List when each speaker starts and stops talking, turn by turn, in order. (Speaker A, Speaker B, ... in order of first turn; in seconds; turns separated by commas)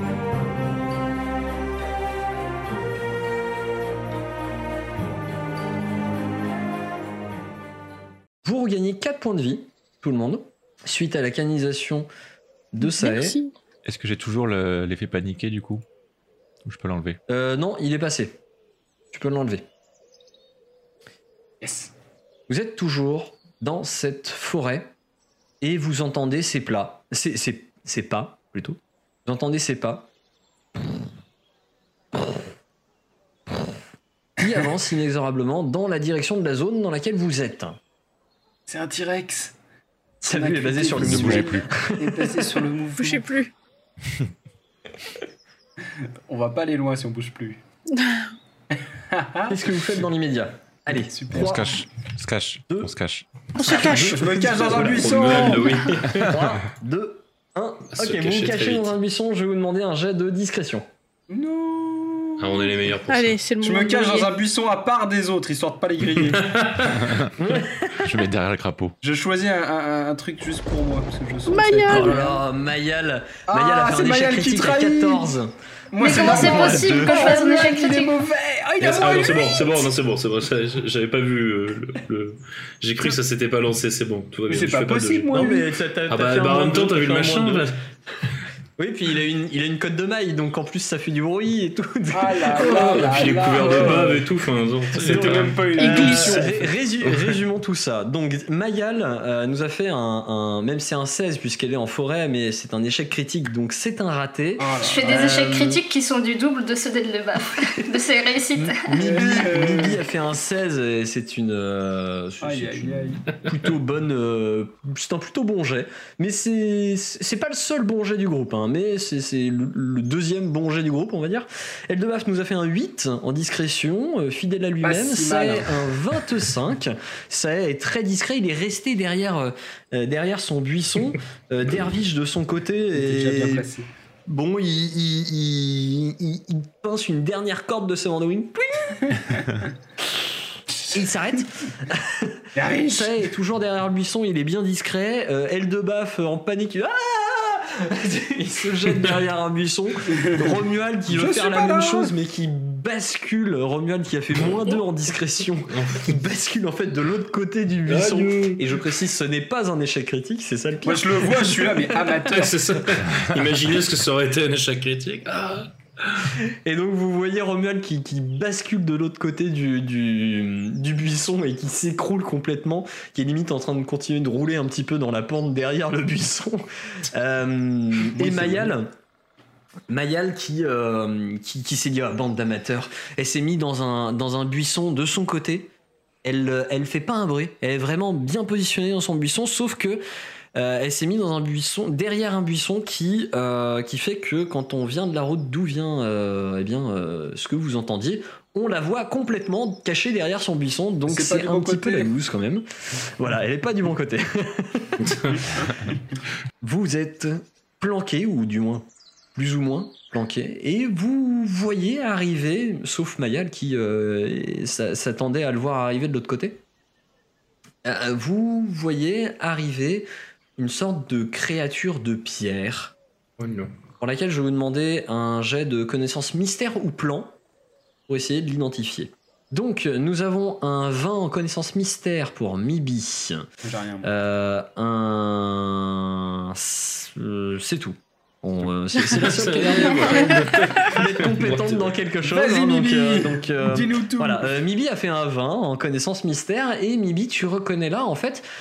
Speaker A: 8.4-12.1, Speaker A: 12.7-13.4, Speaker B: 12.8-13.5, Speaker C: 13.8-15.8, Speaker C: 16.6-17.2, Speaker A: 17.3-18.4, Speaker A: 19.1-19.7, Speaker D: 21.6-21.9, Speaker A: 22.5-24.9, Speaker A: 25.6-30.1, Speaker A: 34.4-37.8, Speaker D: 38.7-39.5, Speaker A: 40.2-42.5, Speaker D: 40.2-43.3, Speaker C: 40.9-41.7, Speaker B: 43.0-43.5, Speaker D: 46.3-47.6, Speaker B: 47.9-48.3, Speaker D: 49.1-49.6, Speaker A: 49.5-51.8, Speaker D: 50.9-51.7, Speaker C: 51.3-53.3, Speaker B: 53.6-54.2, Speaker A: 53.6-60.9, Speaker D: 53.7-55.8, Speaker E: 54.5-56.3, Speaker E: 57.9-58.9, Speaker D: 61.3-62.7, Speaker E: 62.4-63.3, Speaker B: 63.1-64.3, Speaker D: 63.6-66.4, Speaker E: 66.2-67.0, Speaker C: 67.1-67.3, Speaker A: 67.4-68.2, Speaker C: 68.0-69.0, Speaker D: 69.0-72.4, Speaker B: 71.5-72.2, Speaker A: 71.9-77.5, Speaker D: 73.5-75.3, Speaker D: 75.9-79.8, Speaker F: 76.0-78.2, Speaker E: 78.8-85.5, Speaker A: 78.8-79.3, Speaker D: 84.5-85.7, Speaker A: 85.3-87.7, Speaker E: 86.1-87.8, Speaker A: 88.8-94.2, Speaker D: 92.1-94.2, Speaker E: 92.5-96.3, Speaker D: 94.9-96.6, Speaker A: 95.0-105.8, Speaker B: 95.7-96.4, Speaker E: 97.0-97.3, Speaker D: 104.6-105.5, Speaker F: 104.8-109.0, Speaker A: 108.5-133.7, Speaker D: 109.0-110.0, Speaker D: 112.4-113.2, Speaker D: 124.8-125.7, Speaker D: 132.9-133.9, Speaker A: 134.2-139.1, Speaker D: 139.1-139.4, Speaker A: 140.9-161.9, Speaker D: 142.5-143.2, Speaker D: 151.1-152.1, Speaker E: 155.7-156.1, Speaker E: 157.8-158.6, Speaker D: 160.8-162.7, Speaker E: 162.2-166.2, Speaker A: 166.5-178.9, Speaker D: 178.1-178.7, Speaker A: 179.9-185.7, Speaker A: 186.2-190.0, Speaker A: 190.5-205.1, Speaker D: 201.1-202.1, Speaker A: 206.6-216.6, Speaker A: 217.8-222.9, Speaker E: 223.4-223.7, Speaker A: 224.0-227.4, Speaker A: 228.1-233.4, Speaker D: 233.6-234.1, Speaker A: 234.0-248.4, Speaker E: 239.1-241.9, Speaker D: 242.2-244.5